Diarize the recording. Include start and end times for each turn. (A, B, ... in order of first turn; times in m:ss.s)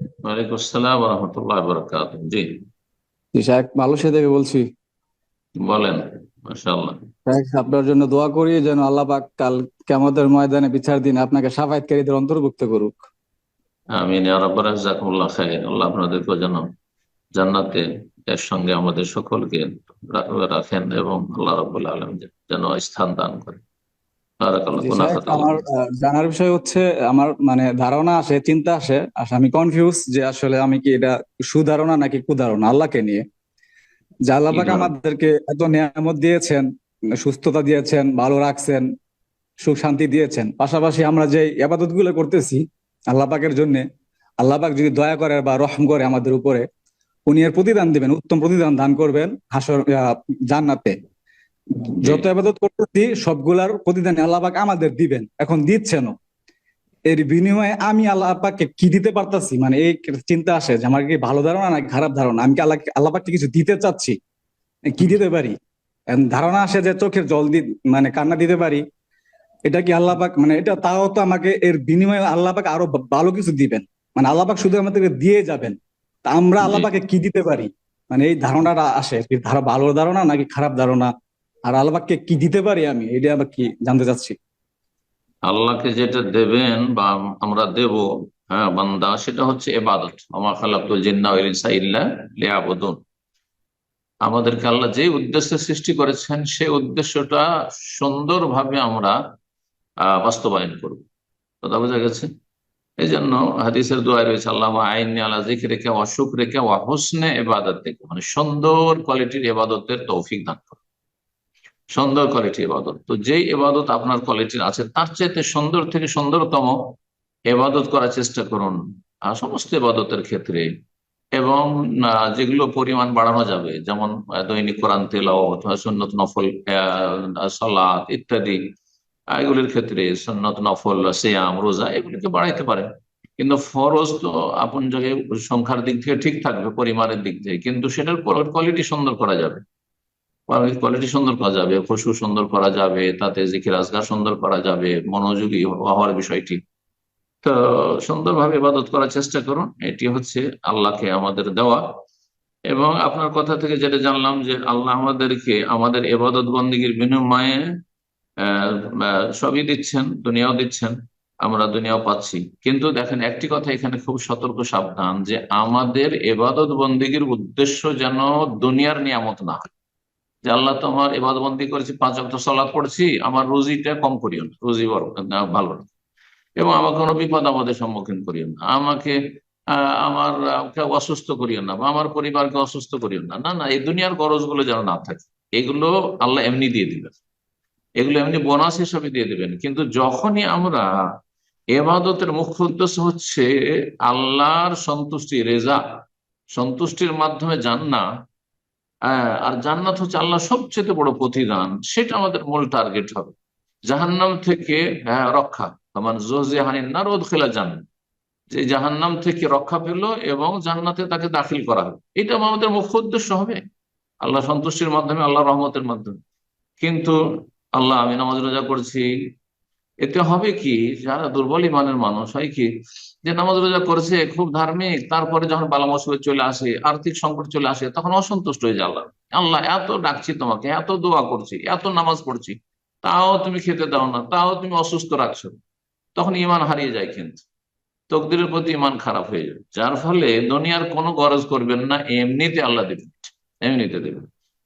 0:00.2-0:02.5 A
0:03.3-0:04.6 B
0:05.6-0:07.0 A
0:07.3-0:13.0 B
0:14.0-0:16.7 A
0:17.4-0:23.6 A
0:24.4-0:25.6 A
0:24.8-0:33.2 B
0:34.3-0:36.6 B
0:34.5-0:34.9 A
0:37.2-0:38.8 B
0:39.6-0:42.6 B
0:43.1-0:43.8 B
0:44.4-0:46.6 B
0:47.3-0:51.0 B
0:52.0-0:56.1 B
0:57.1-1:04.1 B
1:04.9-1:05.5 B
1:06.1-1:08.8 B
1:09.7-1:15.8 B
1:16.3-1:21.1 B
1:16.6-1:16.9 A
1:21.7-1:24.4 B
1:25.4-1:33.0 A
1:34.2-1:39.2 A
1:40.0-1:41.0 A
1:41.6-1:42.3 A
1:43.0-1:50.8 A
1:51.9-1:56.8 A
1:57.5-2:00.7 A
2:01.4-2:08.6 A
2:09.3-2:12.9 A
2:13.4-2:19.6 A
2:20.5-2:26.6 A
2:27.4-2:31.8 A
2:32.7-2:37.7 A
2:38.4-2:49.7 A
2:50.4-2:55.9 A
2:56.6-2:59.2 A
2:59.7-3:07.2 A
3:08.0-3:10.8 A
3:11.7-3:13.5 A
3:14.0-3:15.8 A
3:16.5-3:18.0 A
3:19.1-3:23.4 A
3:23.9-3:27.8 A
3:28.5-3:33.6 A
3:34.2-3:36.2 A
3:36.8-3:37.2 A
3:37.8-3:39.1 A
3:40.0-3:42.7 A
3:43.2-3:55.5 A
3:56.2-3:57.4 A
3:58.1-4:04.2 A